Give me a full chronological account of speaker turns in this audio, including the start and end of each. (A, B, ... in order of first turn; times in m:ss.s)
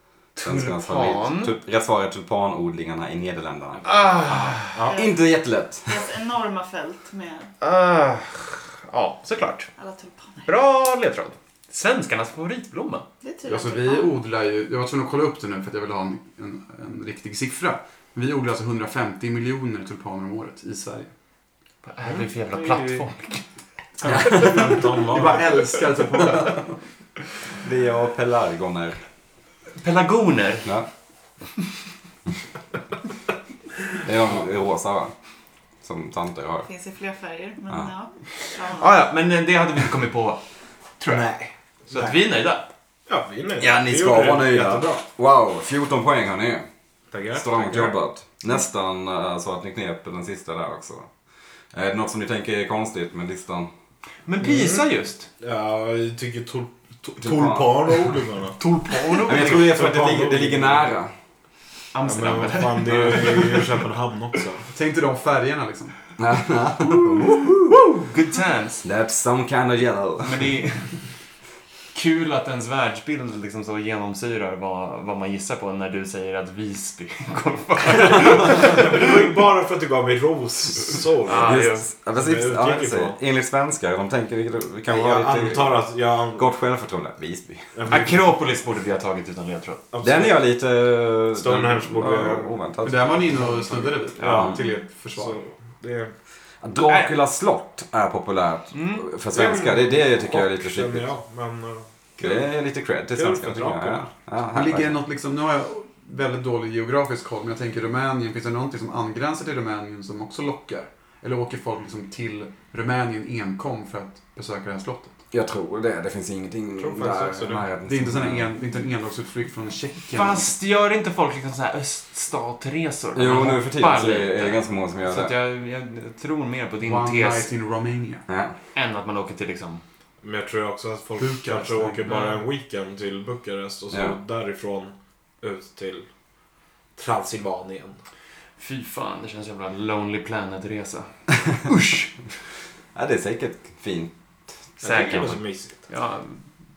0:00.4-0:01.5 A
0:00.4-0:03.9 B
0:03.8-0:04.8 A
0:04.3-0:05.0 C
0:04.9-0:05.2 D
0:04.9-0:06.0 B
0:05.8-0:07.5 D
0:07.6-0:09.7 A
0:09.8-0:10.5 D
0:10.4-0:13.0 A
0:13.2-0:14.2 D
0:13.4-0:21.1 E
0:21.8-0:23.4 A
0:24.0-0:25.6 C
0:24.2-0:26.8 E
0:27.6-0:29.0 B
0:29.8-0:30.7 A
0:34.0-0:35.1 B
0:35.8-0:36.7 B
0:36.6-0:38.9 D
0:38.7-0:40.4 A
0:41.0-0:41.3 A
0:41.1-0:42.2 C
0:41.9-0:42.7 A
0:43.1-0:45.0 C
0:43.6-0:46.7 B
0:47.1-0:48.0 C
0:47.3-0:51.1 B
0:51.7-0:53.7 B
0:54.2-0:55.3 A
0:54.4-0:54.8 C
0:55.4-0:58.6 C
0:57.2-0:57.9 B
0:58.6-0:59.4 A
0:58.7-0:59.3 E
0:59.2-1:00.9 C
0:59.2-1:01.1 B
1:01.9-1:03.7 A
1:02.0-1:04.7 C
1:04.7-1:06.0 E
1:06.2-1:07.5 B
1:06.8-1:08.8 A
1:08.8-1:10.4 B
1:10.2-1:11.0 A
1:11.9-1:19.0 A
1:18.1-1:21.6 C
1:21.2-1:21.9 A
1:21.3-1:25.8 B
1:22.1-1:23.2 C
1:24.9-1:26.4 C
1:26.3-1:27.7 B
1:27.7-1:28.2 C
1:27.9-1:29.8 A
1:29.9-1:30.4 C
1:30.0-1:33.3 B
1:31.3-1:32.6 C
1:32.8-1:35.4 E
1:33.3-1:34.6 C
1:34.3-1:34.6 B
1:35.1-1:36.1 C
1:36.6-1:41.1 B
1:38.7-1:39.1 A
1:39.3-1:42.5 C
1:42.2-1:45.0 B
1:43.1-1:44.1 C
1:44.5-1:55.2 E
1:55.3-1:58.5 B
1:56.8-1:57.7 C
1:57.8-2:00.5 E
2:00.1-2:07.5 A
2:03.2-2:05.3 B
2:06.8-2:08.2 E
2:08.3-2:08.5 B
2:08.7-2:09.8 A
2:10.2-2:16.1 C
2:11.2-2:12.1 E
2:12.0-2:12.4 A
2:16.9-2:18.0 C
2:18.6-2:22.1 A
2:22.9-2:24.1 B
2:24.8-2:26.4 A
2:24.8-2:25.8 C